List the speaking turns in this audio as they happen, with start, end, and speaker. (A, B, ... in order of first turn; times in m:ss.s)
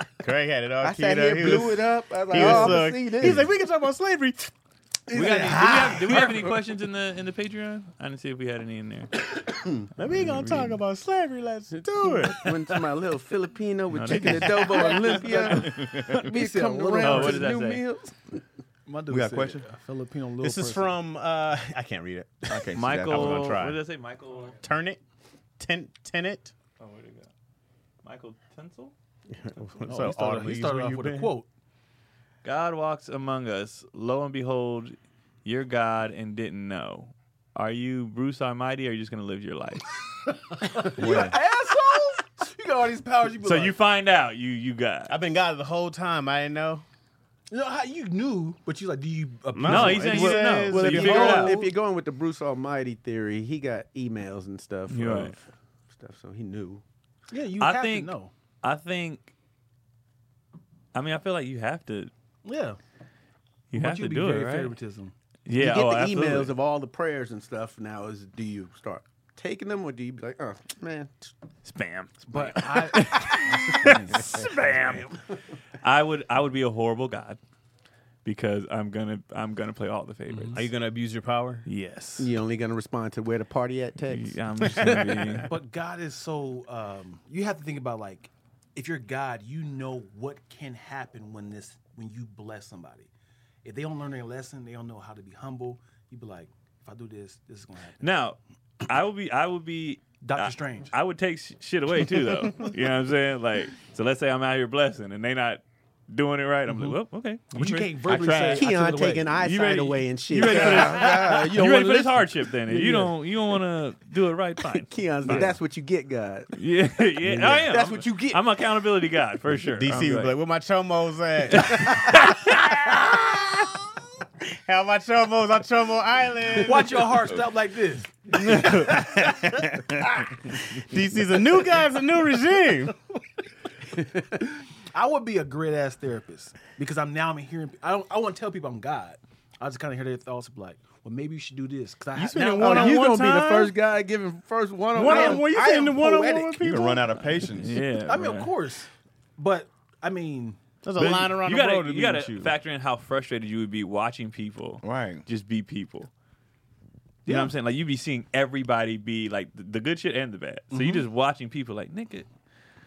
0:00.2-0:04.5 A
0:00.8-0:03.5 B
0:02.4-0:03.4 C
0:05.1-0:06.6 D
0:05.1-0:09.2 E
0:09.6-0:09.9 B
0:10.0-0:12.5 A
0:10.1-0:10.8 E
0:12.2-0:18.4 B
0:13.9-0:15.6 E
0:15.4-0:17.5 D
0:15.6-0:16.2 C
0:17.0-0:17.8 E
0:18.9-0:20.9 D
0:19.1-0:19.6 C
0:20.4-0:23.8 A
0:22.5-0:23.7 C
0:22.8-0:24.6 E
0:24.6-0:25.0 A
0:25.6-0:26.5 A
0:26.8-0:27.3 E
0:28.0-0:28.9 E
0:29.3-0:31.3 A
0:29.8-0:31.5 D
0:32.4-0:39.9 E
0:40.6-0:43.8 D
0:41.0-0:41.4 C
0:43.4-0:45.2 E
0:45.1-0:46.8 A
0:47.5-0:51.6 D
0:49.5-0:51.5 A
0:49.7-0:51.6 E
0:50.7-0:56.8 B
0:54.9-0:55.4 E
0:57.3-0:58.3 D
0:57.6-0:59.3 E
1:00.9-1:02.1 E
1:02.4-1:02.8 D
1:03.7-1:04.7 E
1:03.7-1:05.1 D
1:05.5-1:06.5 E
1:05.6-1:11.3 B
1:11.6-1:15.2 E
1:12.3-1:14.6 D
1:15.8-1:17.4 E
1:18.2-1:20.7 E
1:20.3-1:20.6 D
1:20.6-1:21.7 A
1:21.7-1:22.3 E
1:22.2-1:25.0 B
1:24.1-1:25.5 E
1:24.8-1:25.1 A
1:25.4-1:33.1 D
1:33.6-1:38.0 D
1:38.0-1:48.6 E
1:40.2-1:40.9 D
1:46.7-1:47.0 D
1:47.5-1:49.3 D
1:48.1-1:48.6 C
1:48.5-1:53.1 B
1:49.4-1:55.6 E
1:50.5-1:51.4 C
1:54.7-1:56.6 B
1:56.5-2:00.3 E
1:57.2-1:58.6 B
1:59.7-2:03.7 A
1:59.9-2:00.2 C
2:01.6-2:02.6 E
2:01.7-2:02.4 B
2:04.5-2:07.2 A
2:06.5-2:09.2 D
2:08.5-2:09.8 A
2:10.4-2:13.0 A
2:14.5-2:23.0 D
2:22.2-2:23.7 A
2:22.6-2:23.0 C
2:22.6-2:26.4 B
2:25.0-2:27.3 A
2:25.0-2:25.5 D
2:26.5-2:27.8 C
2:27.5-2:28.5 E
2:28.1-2:30.6 D
2:30.8-2:32.5 A
2:31.0-2:36.1 E
2:34.8-2:35.2 C
2:37.3-2:37.5 D
2:37.3-2:42.3 E
2:40.7-2:41.1 D